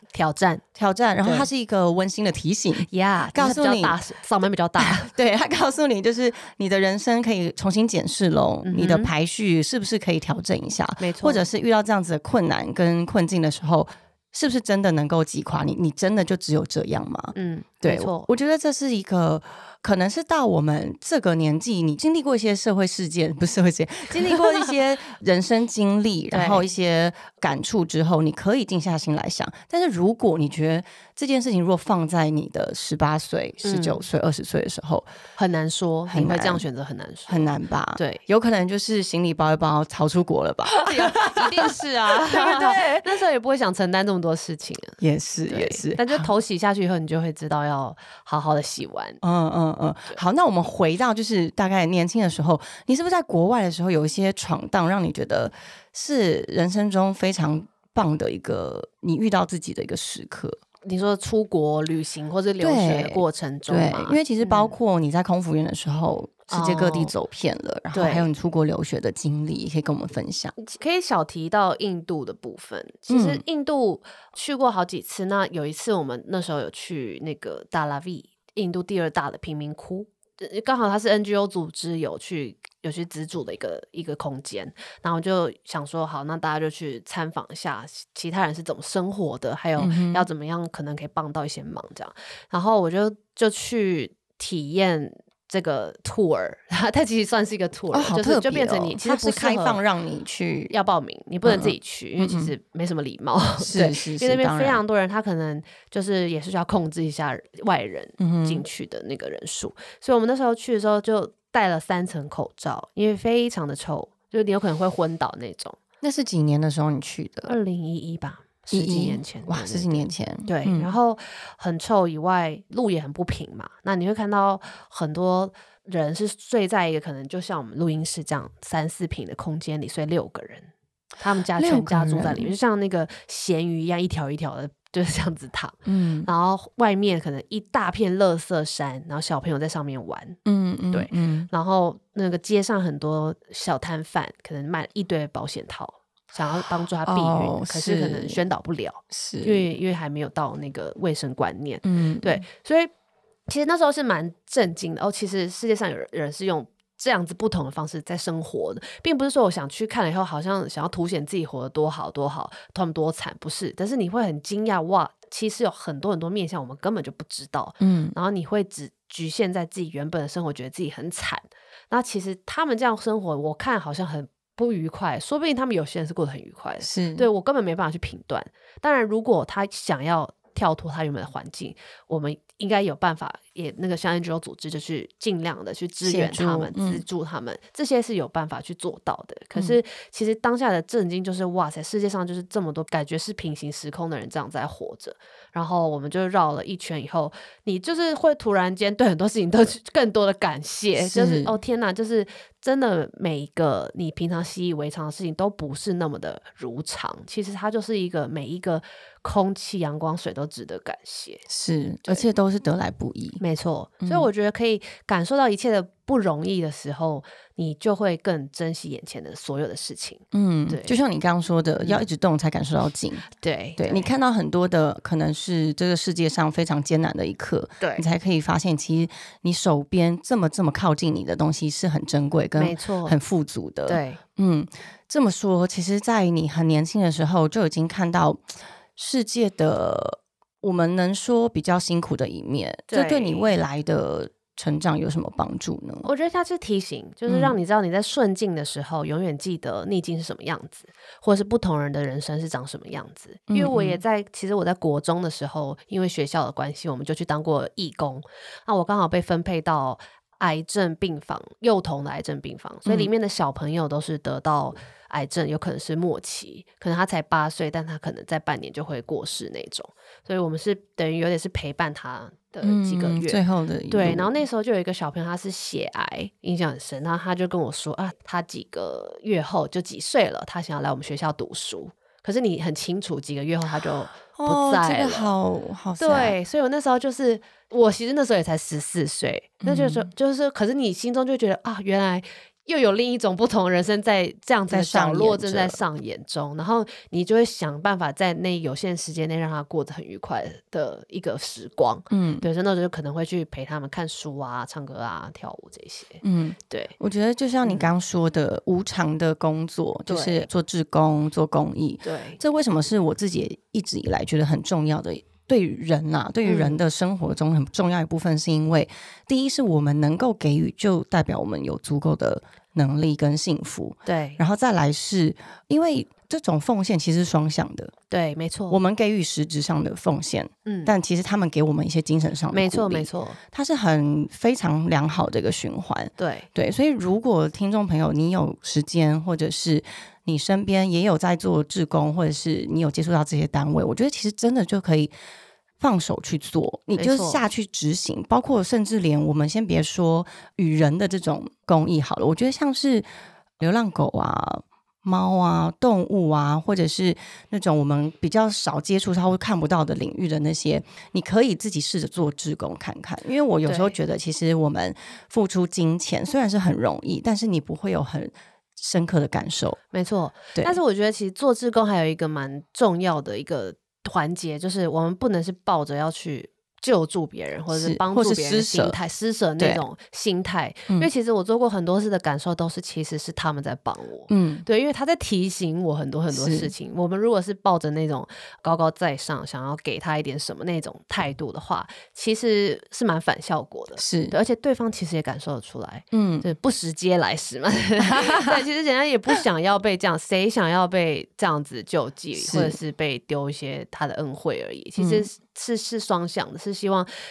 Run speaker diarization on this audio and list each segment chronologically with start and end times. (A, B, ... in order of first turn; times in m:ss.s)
0:00.1-0:00.6 A
0:00.8-0:04.0 B
0:01.2-0:01.5 A
0:02.9-0:05.1 A
0:04.8-0:35.1 B
0:08.6-0:09.1 A
0:11.0-0:11.4 A
0:17.3-0:18.3 A
0:24.2-0:24.7 A
0:26.3-0:26.7 A
0:33.6-0:34.0 A
0:35.4-0:38.2 A
0:36.1-0:36.6 B
0:37.3-0:43.1 B
0:40.7-0:49.2 A
0:45.0-0:46.3 B
0:49.2-1:00.6 B
1:00.8-1:04.7 A
1:02.6-1:10.5 B
1:06.5-1:07.1 A
1:07.9-1:08.3 A
1:10.6-1:39.8 A
1:13.1-1:13.4 B
1:29.8-1:30.3 B
1:37.9-1:40.7 B
1:40.7-1:55.8 A
1:41.4-1:42.5 B
1:43.6-1:44.8 B
1:48.2-1:48.6 B
1:56.0-1:57.6 B
1:57.5-2:20.4 A
1:58.7-2:00.9 B
2:11.6-2:12.5 B
2:15.8-2:16.3 B
2:20.4-2:21.5 B
2:20.9-2:32.9 A
2:27.0-2:28.4 B
2:29.1-2:29.6 B
2:31.8-2:32.4 B
2:33.5-3:31.4 A
2:47.8-2:48.2 B
2:56.8-2:57.2 B
3:06.0-3:07.0 B
3:21.0-3:21.5 B
3:31.5-3:33.4 B
3:33.4-3:41.0 A
3:34.0-3:34.3 B
3:40.3-4:06.1 B
3:43.4-3:44.1 A
3:47.8-3:48.0 A
3:52.6-3:53.2 A
3:53.9-3:54.2 A
4:02.9-4:03.5 A
4:06.0-4:45.3 A
4:07.3-4:07.6 B
4:13.5-4:14.0 B
4:22.8-4:23.1 B
4:32.6-4:34.3 B
4:44.2-4:46.4 B
4:46.0-5:07.0 A
4:49.6-4:50.1 B
4:54.7-4:55.8 B
5:02.1-5:02.4 B
5:06.2-5:27.9 B
5:07.6-5:07.9 A
5:10.1-5:10.5 A
5:12.0-5:12.4 A
5:16.4-5:16.8 A
5:24.0-5:24.4 A
5:28.1-5:28.8 A
5:28.7-5:45.1 B
5:30.6-5:30.9 A
5:32.5-5:33.4 A
5:36.2-5:36.5 A
5:45.8-5:53.0 B
5:47.0-5:47.4 A
5:53.6-6:09.8 B
6:03.6-6:03.9 A
6:09.9-6:47.1 A
6:17.7-6:19.0 B
6:24.3-6:24.6 B
6:26.3-6:26.7 B
6:34.0-6:34.3 B
6:36.1-6:36.5 B
6:38.1-6:38.5 B
6:42.4-6:42.8 B
6:45.0-6:45.3 B